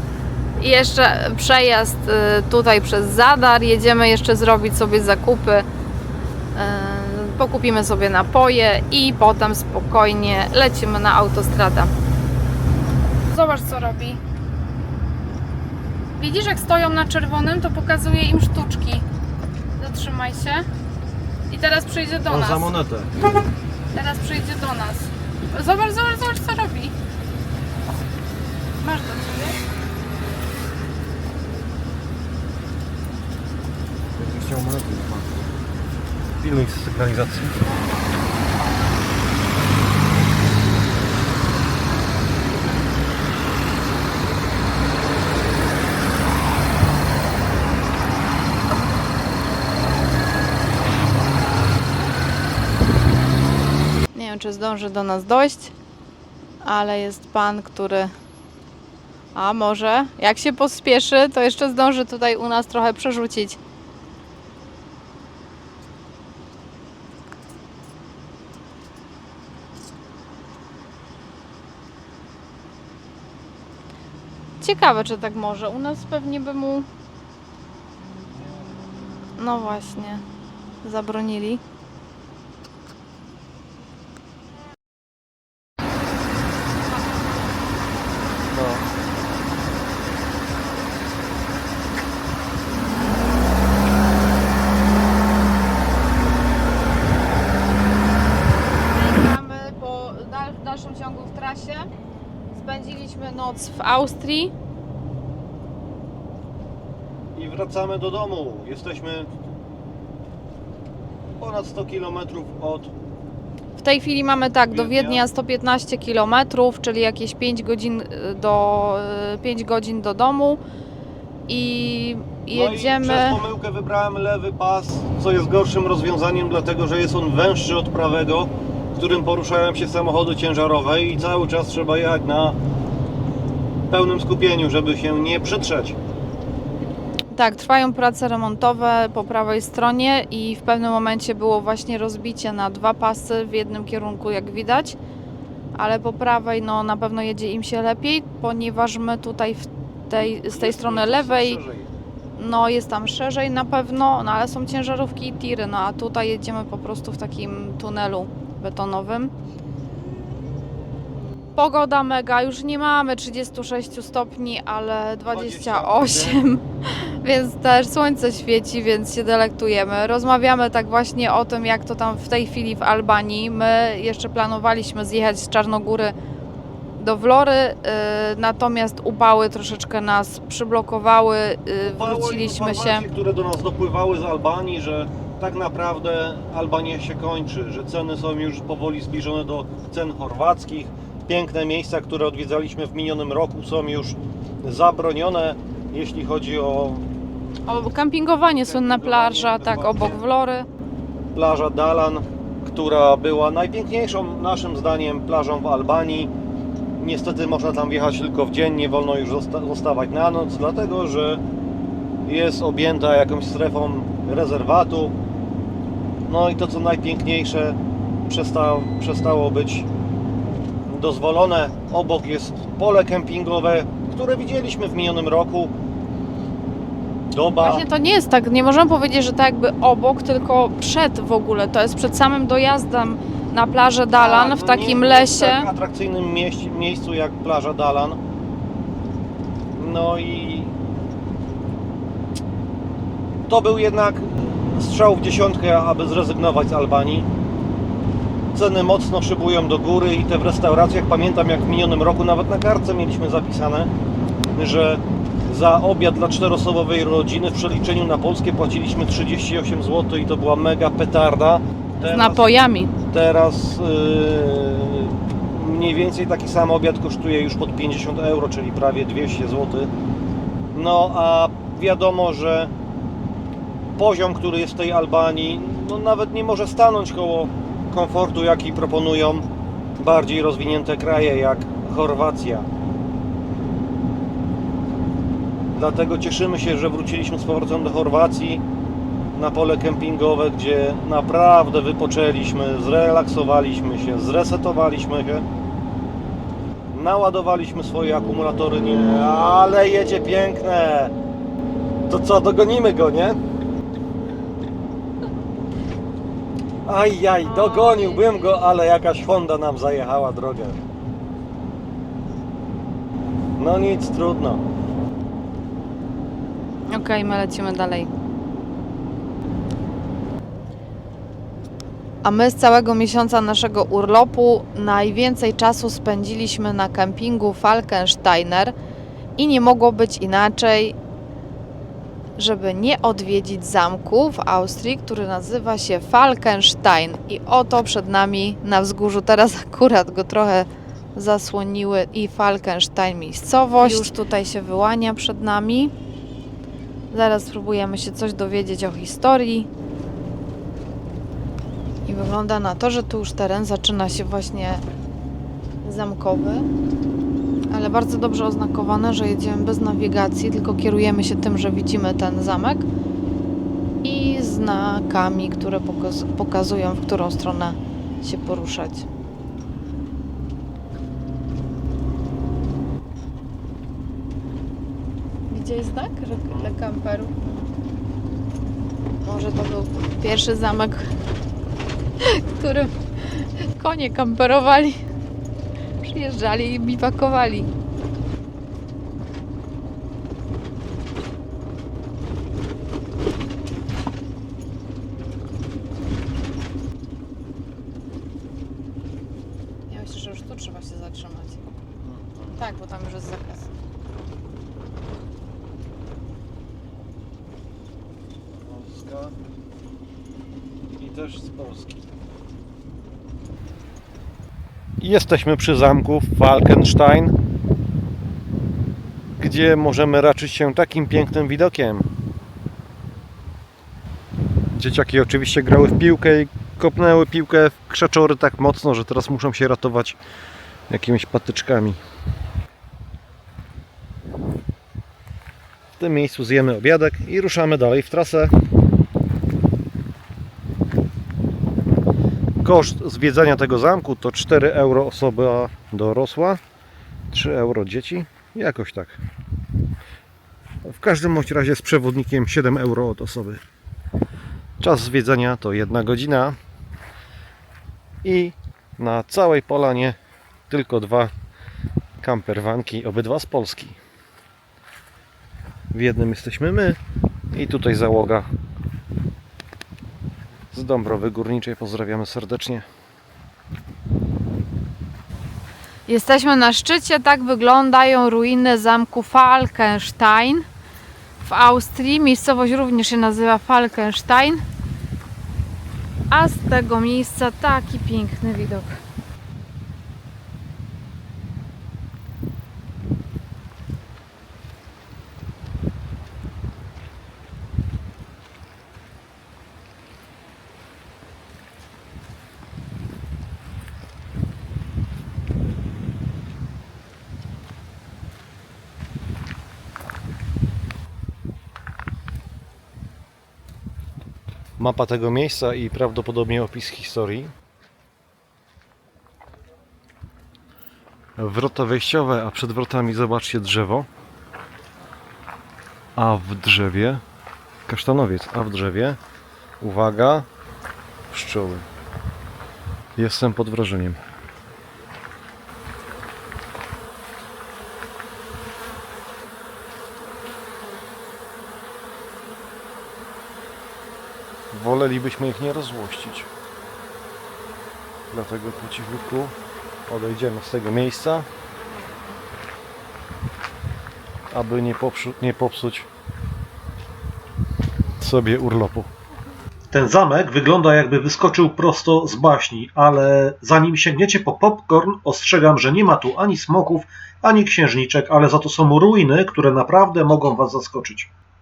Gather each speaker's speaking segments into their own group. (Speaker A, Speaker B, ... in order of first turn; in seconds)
Speaker A: 0.6-5.7, 6.5-11.9, 13.2-14.2, 16.1-19.0, 19.8-20.6, 21.5-22.7, 23.9-26.9, 28.8-29.6, 54.1-55.7, 56.6-58.1, 59.3-63.6, 74.6-76.9, 79.4-80.2, 80.8-81.6, 98.8-101.9, 102.5-104.5, 113.8-120.6, 121.5-123.4, 137.3-145.0, 145.7-151.6, 152.3-159.3, 161.6-176.1, 177.0-183.1, 197.7-200.7, 227.6-235.7, 262.0-262.9, 307.4-308.6, 316.9-318.1, 322.2-328.7, 329.4-330.9, 332.4-345.9, 347.1-349.7, 352.1-354.8, 355.8-356.7, 357.7-362.9, 364.0-369.1, 375.5-377.3, 379.2-381.0, 382.2-385.0, 386.0-387.7, 399.9-401.6, 402.6-403.7, 476.1-480.6, 481.4-484.6, 486.3-489.0
Speaker B: 22.3-23.1, 34.1-35.4, 36.4-37.7, 78.3-78.8, 88.5-88.8, 107.3-109.3, 111.4-112.9, 114.7-115.2, 122.5-132.6, 133.9-136.0, 150.2-151.9, 165.3-166.4, 181.8-197.1, 198.6-200.2, 201.3-206.3, 207.0-211.4, 212.2-215.1, 216.2-219.9, 220.9-225.7, 227.3-227.9, 234.1-238.2, 239.7-240.7, 243.5-247.3, 248.5-253.9, 254.5-262.5, 263.0-269.9, 270.7-272.7, 274.0-279.4, 280.0-282.7, 285.7-288.6, 289.3-295.4, 296.9-301.1, 302.1-303.4, 306.9-310.8, 313.6-314.6, 402.0-402.6, 408.6-409.3, 410.9-412.1, 415.0-417.4, 419.4-422.1, 424.8-430.2, 430.9-432.0, 436.0-438.5, 442.6-446.6, 447.3-449.2, 450.8-453.6, 454.8-456.6, 458.2-460.2, 460.7-461.3, 462.2-464.0, 465.9-467.0, 467.5-468.5, 470.7-472.9, 514.8-517.5, 521.4-524.1, 526.1-527.2, 527.9-529.2, 529.8-530.5, 531.3-531.9, 533.1-534.2, 544.7-546.5, 548.3-549.5, 550.1-551.5, 554.5-556.1, 558.2-559.1
Speaker C: 559.9-571.3